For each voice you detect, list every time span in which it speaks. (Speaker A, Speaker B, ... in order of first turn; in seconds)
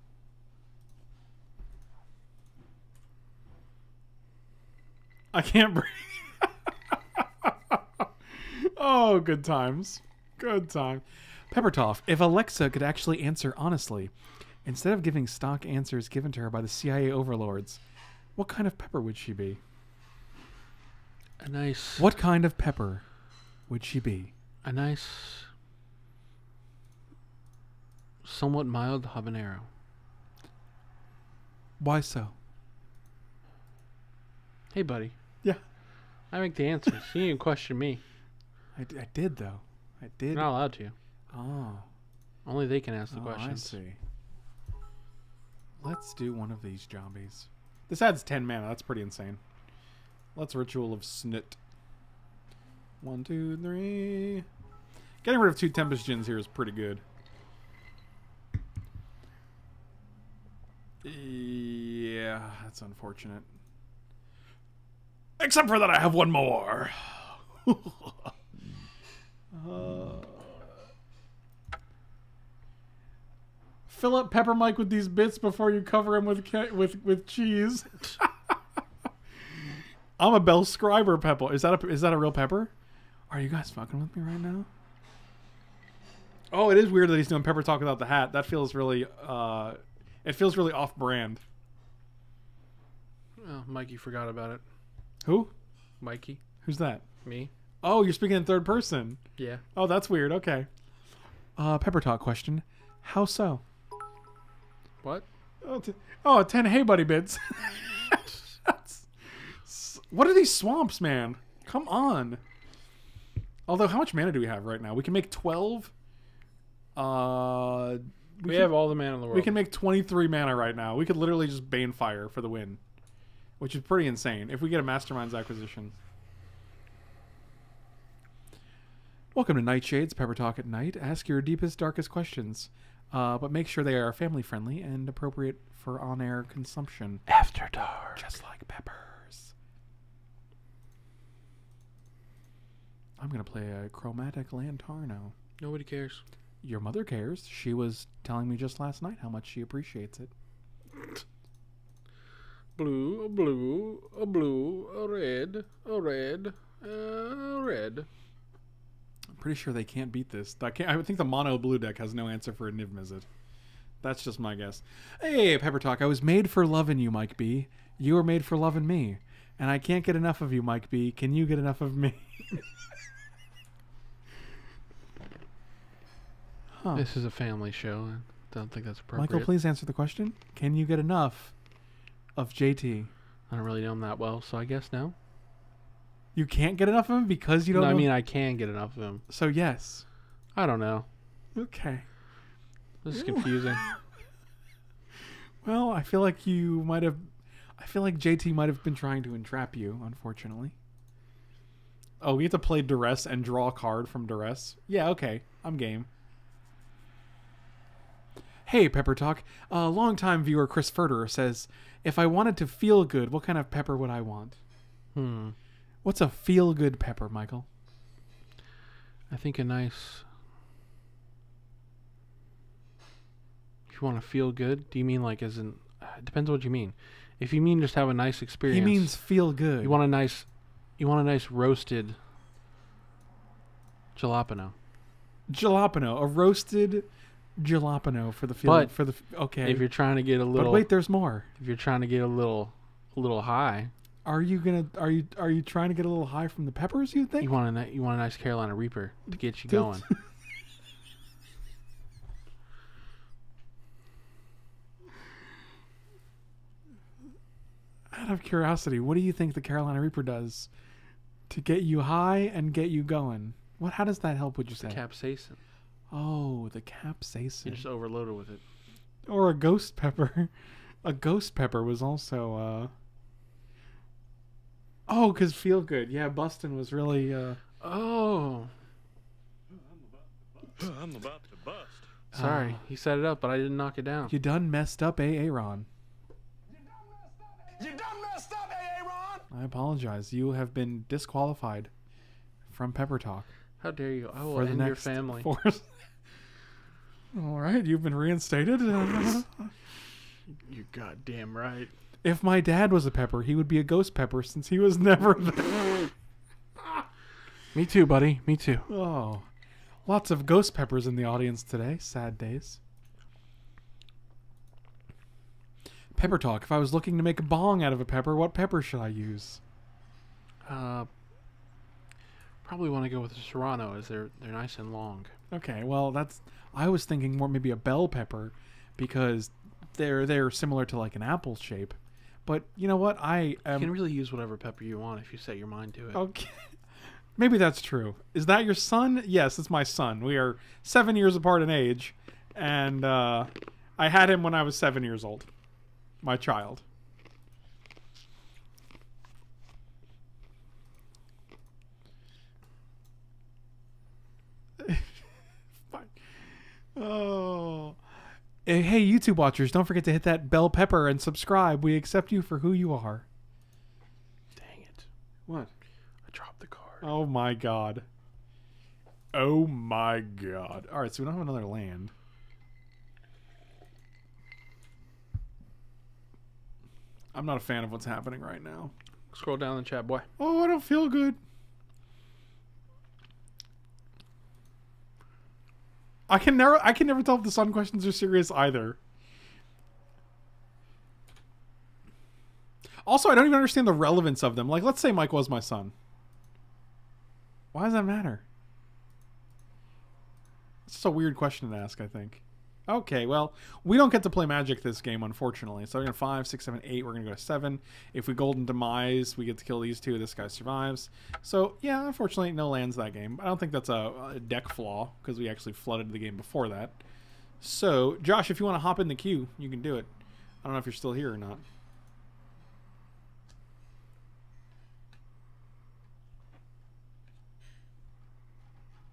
Speaker A: 5.3-14.1, 14.7-17.8, 18.4-19.6, 22.0-23.0, 23.7-24.3, 31.8-32.3, 38.8-40.5, 41.3-41.9, 43.1-44.0, 45.8-49.4, 50.4-51.6, 53.0-54.5, 55.2-57.0, 61.0-63.5, 65.4-68.3, 69.5-70.7, 73.9-78.5, 80.2-82.7, 83.3-84.7, 86.5-91.4, 95.2-95.5, 96.6-97.0, 97.8-99.2, 99.8-100.7, 101.6-103.6, 105.6-112.4, 113.7-115.9, 117.0-122.8, 123.6-126.0, 129.3-137.2, 138.2-139.5, 143.2-145.3, 146.6-150.3, 159.4-163.3, 164.0-172.6, 176.7-177.0, 179.2-181.5, 182.4-183.1, 186.3-188.1, 189.3-190.1, 191.6-192.1, 193.1-193.9, 195.6-200.8, 202.2-206.1, 208.7-214.6, 216.0-217.7, 228.7-230.0, 235.5-237.1, 237.6-239.9, 240.5-241.5, 244.2-247.5, 249.7-250.2, 258.1-260.7, 261.5-265.0, 266.1-267.8, 269.3-270.5, 271.0-272.9, 275.1-277.6, 282.3-282.8, 284.3-285.9, 289.5-291.9, 292.7-293.5, 294.5-295.9, 297.3-299.7, 302.2-306.1, 308.9-309.5, 310.1-312.8, 316.1-319.6, 325.5-333.9, 336.1-336.7, 337.4-345.5, 346.2-346.8, 354.8-355.2, 355.9-356.1, 356.9-358.0, 358.6-363.3, 367.0-368.1, 369.3-372.1, 377.3-378.9, 380.4-381.4, 386.3-389.0, 393.0-395.9, 397.7-398.4, 400.9-417.0, 417.6-420.1, 420.6-421.6
Speaker B: 21.4-22.1, 24.6-25.5, 28.2-29.7, 34.7-35.1, 36.3-38.0, 40.3-40.9, 42.5-43.8, 93.4-94.6, 96.0-96.4, 97.2-97.5, 99.4-99.6, 118.5-119.6, 137.3-138.2, 145.6-146.2, 152.8-158.1, 176.9-179.5, 183.5-185.2, 187.7-189.2, 190.6-191.1, 193.0-193.8, 215.2-215.6, 219.3-220.3, 223.9-229.2, 229.8-230.5, 231.0-232.2, 234.2-234.8, 238.6-238.9, 239.6-240.9, 241.6-243.9, 247.4-250.1, 264.8-265.6, 267.6-268.6, 277.8-278.7, 282.3-284.3, 293.8-295.5, 300.5-301.9, 307.7-308.9, 320.6-321.1, 322.6-325.3, 333.7-336.2, 364.6-365.1, 366.3-367.1, 379.3-380.3
Speaker C: 280.6-282.1, 286.7-289.4